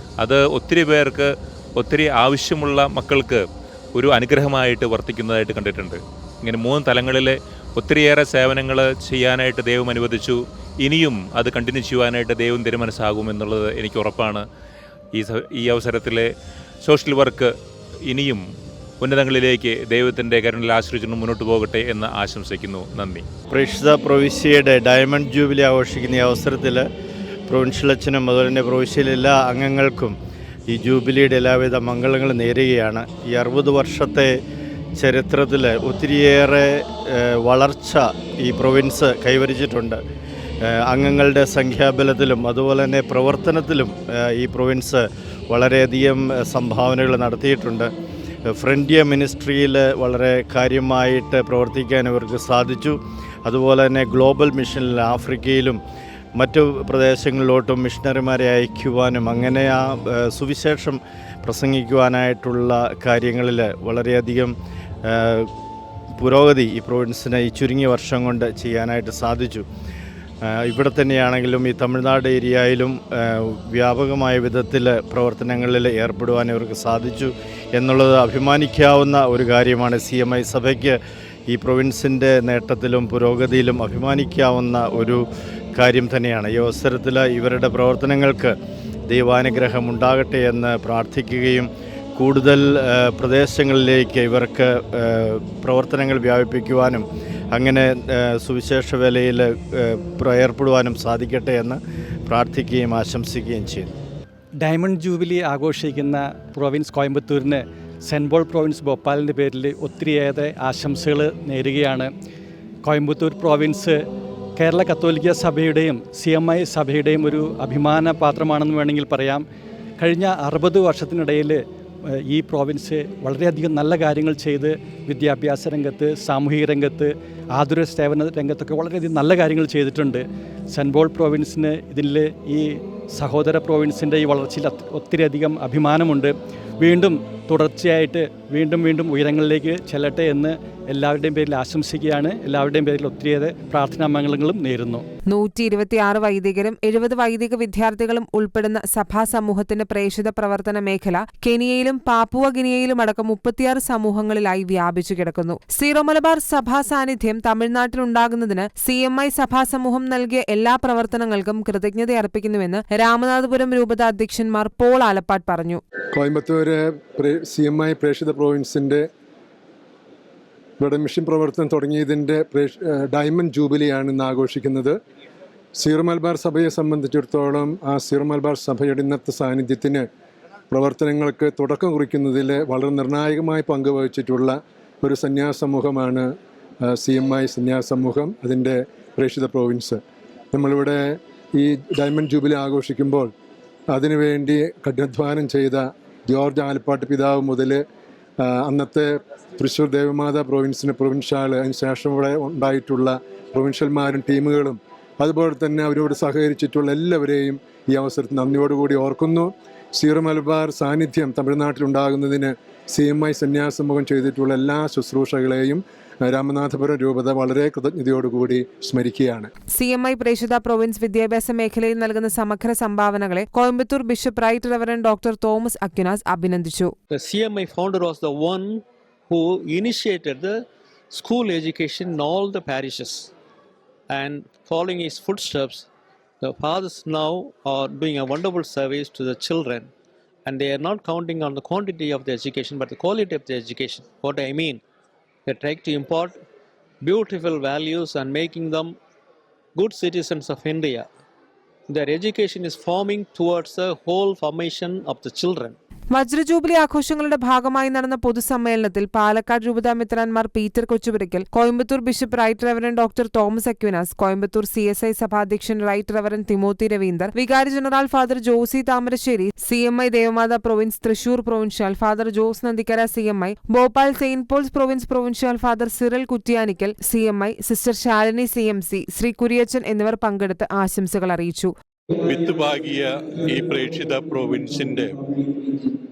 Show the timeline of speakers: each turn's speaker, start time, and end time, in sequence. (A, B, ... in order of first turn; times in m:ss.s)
0:00.2-0:03.4 A
0:04.0-0:14.4 A
0:15.2-0:16.3 A
0:16.8-0:17.5 A
0:18.1-0:18.4 A
0:19.0-0:23.2 A
0:23.5-0:26.9 B
0:27.5-0:30.2 B
0:30.7-0:34.4 B
0:35.0-0:40.0 B
0:40.6-0:47.9 B
0:48.5-0:55.8 B
0:56.4-1:05.5 B
1:06.2-1:09.7 B
1:10.5-1:25.2 B
1:25.8-1:28.5 B
1:29.1-1:43.9 B
1:44.6-1:52.1 C
1:52.8-1:54.0 C
1:54.6-1:59.4 C
2:00.0-2:01.6 C
2:02.3-2:25.0 C
2:25.3-2:45.8 D
2:46.1-2:49.1 E
2:50.8-2:55.0 E
2:55.8-3:00.1 E
3:00.7-3:06.3 E
3:06.9-3:10.0 E
3:10.5-3:11.0 E
3:11.6-3:13.3 E
3:13.9-3:17.8 E
3:18.4-3:39.5 E
3:39.8-3:46.9 D
3:47.1-3:53.3 F
3:54.1-3:55.9 F
3:56.4-3:59.9 F
4:00.5-4:04.8 F
4:05.5-4:06.4 F
4:07.0-4:09.0 F
4:09.8-4:11.1 F
4:11.9-4:15.8 F
4:16.1-4:41.7 D
4:42.2-4:42.5 F
4:42.5-4:45.1 G
4:43.4-4:46.0 F